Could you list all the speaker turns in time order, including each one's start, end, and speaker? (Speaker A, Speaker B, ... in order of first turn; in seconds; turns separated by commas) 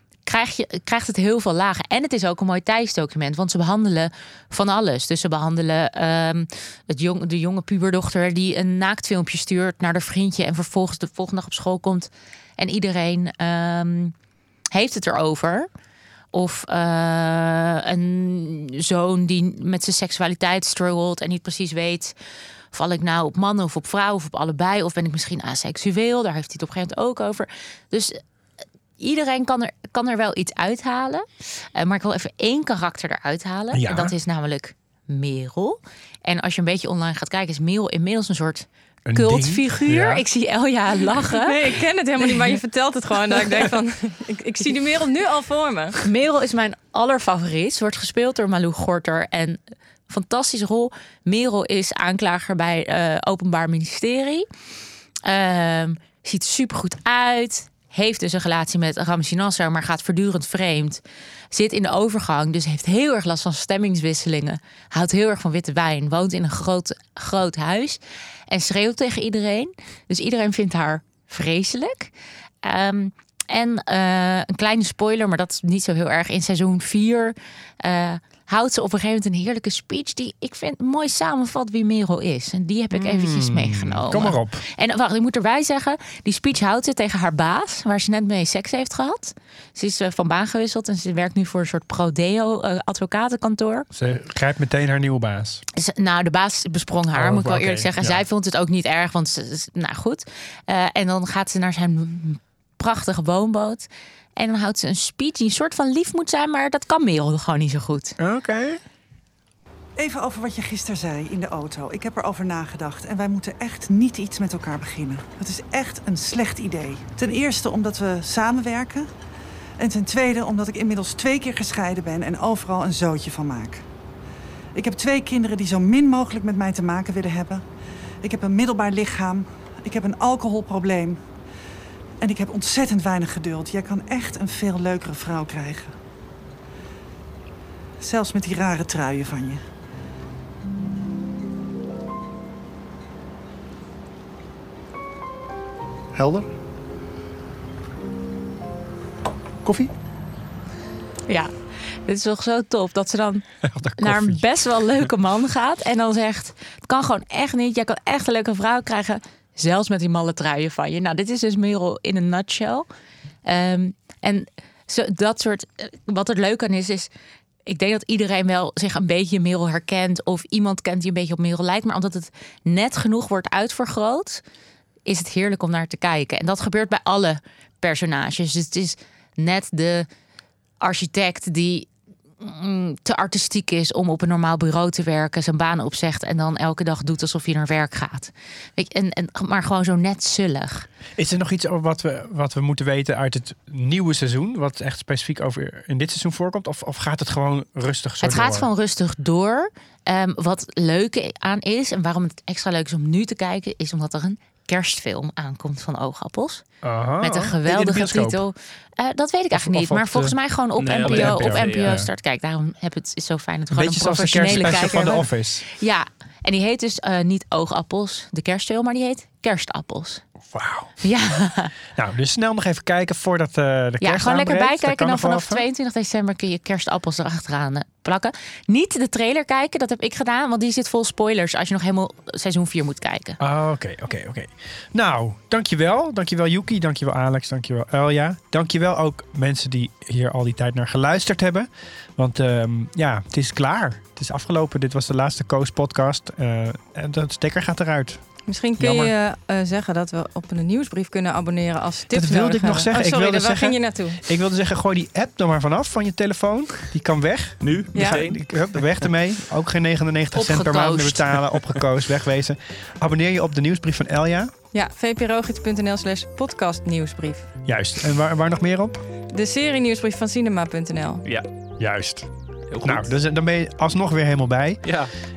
Speaker A: 0.2-14.1, Speaker A: 14.7-15.7, Speaker A: 16.3-22.1, Speaker A: 22.7-28.2, Speaker A: 29.0-41.7, Speaker B: 33.7-34.1, Speaker B: 39.1-40.2, Speaker C: 41.4-46.0, Speaker A: 46.0-54.5, Speaker A: 55.2-61.0, Speaker A: 61.5-93.9, Speaker B: 82.9-84.7, Speaker B: 93.9-95.6, Speaker A: 95.8-108.2, Speaker B: 97.1-98.2, Speaker B: 108.2-108.8, Speaker D: 110.0-119.1, Speaker D: 119.8-123.8, Speaker D: 124.8-127.7, Speaker D: 128.2-131.3, Speaker D: 132.2-136.0, Speaker D: 138.0-139.6, Speaker A: 152.1-162.9, Speaker B: 153.6-154.4, Speaker A: 163.4-167.1, Speaker A: 167.7-174.4, Speaker A: 175.1-180.1, Speaker A: 180.8-181.9, Speaker A: 182.4-190.9, Speaker B: 191.2-198.7, Speaker A: 198.2-206.6, Speaker B: 206.8-208.4, Speaker A: 207.2-220.2, Speaker B: 209.5-210.4, Speaker E: 210.8-212.0, Speaker B: 211.0-212.1, Speaker B: 213.7-215.7, Speaker B: 220.5-220.9, Speaker A: 221.0-221.7, Speaker B: 221.9-225.6, Speaker A: 224.0-233.4, Speaker B: 233.4-249.1, Speaker C: 248.5-254.2, Speaker B: 252.1-264.5, Speaker E: 257.6-259.1, Speaker C: 257.9-258.2, Speaker A: 260.3-261.2, Speaker C: 264.7-267.5, Speaker B: 267.6-269.0, Speaker C: 269.3-271.2, Speaker B: 271.8-272.3, Speaker E: 272.7-273.1, Speaker B: 272.8-274.9, Speaker E: 274.9-275.1